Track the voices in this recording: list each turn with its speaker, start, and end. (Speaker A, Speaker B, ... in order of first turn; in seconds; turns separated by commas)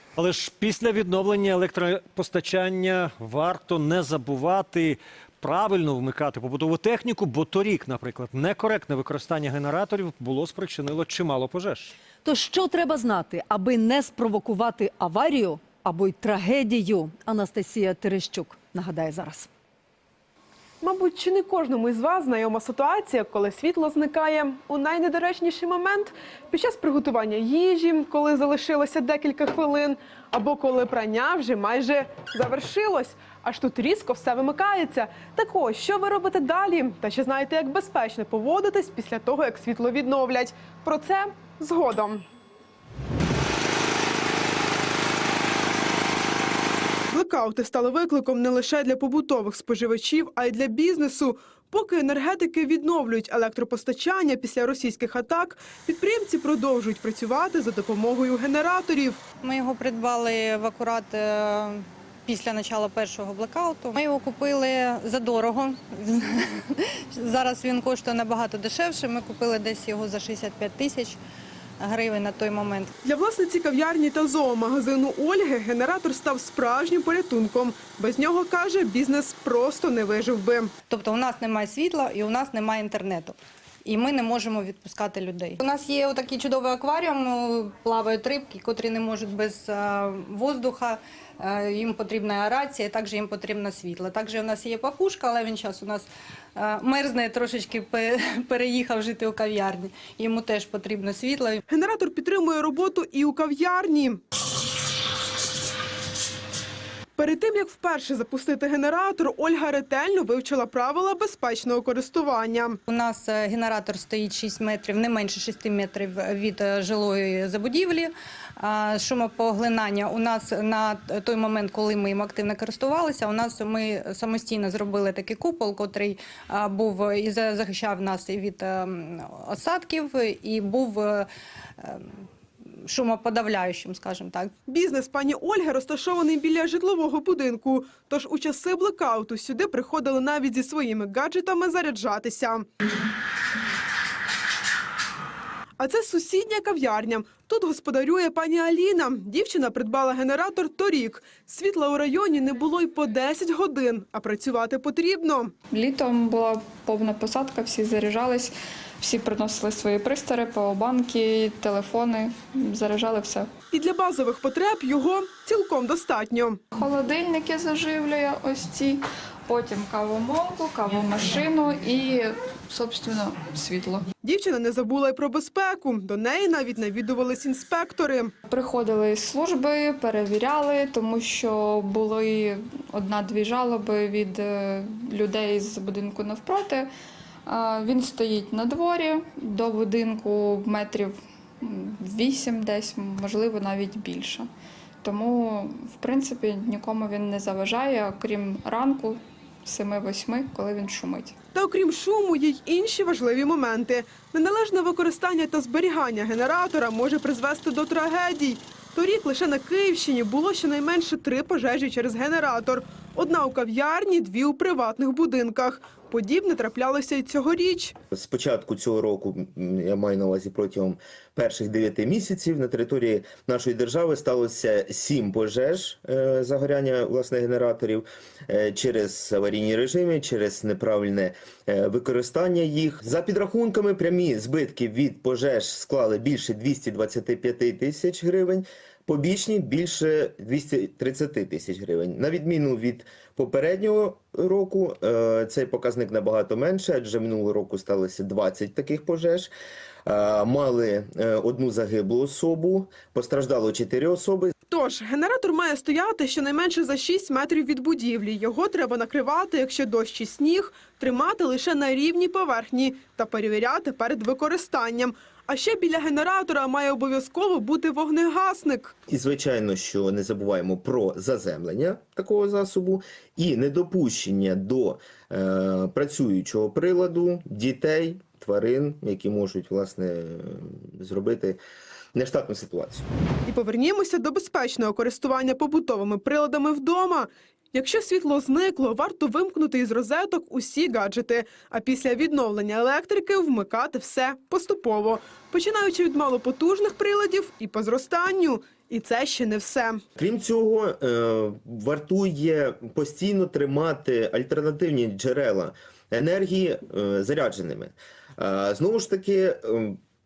Speaker A: 0.2-11.9, Speaker B: 12.2-19.5, Speaker C: 20.8-42.2, Speaker C: 47.1-59.2, Speaker D: 59.4-71.2, Speaker D: 71.8-72.9, Speaker C: 73.0-80.7, Speaker D: 80.9-101.6, Speaker C: 101.7-104.2, Speaker C: 107.2-112.8, Speaker D: 112.9-131.3, Speaker D: 131.8-132.2, Speaker D: 132.8-134.5, Speaker C: 134.7-142.7, Speaker C: 145.8-155.5, Speaker E: 155.7-163.5, Speaker C: 163.7-166.6, Speaker E: 166.8-174.0, Speaker C: 174.2-178.3, Speaker E: 178.5-186.9, Speaker E: 187.5-194.4, Speaker E: 195.0-201.3, Speaker C: 201.5-217.9, Speaker F: 218.1-249.5, Speaker F: 250.1-254.5, Speaker C: 254.7-268.9, Speaker F: 269.1-281.6, Speaker F: 282.1-283.1, Speaker C: 283.4-300.0, Speaker F: 300.2-310.0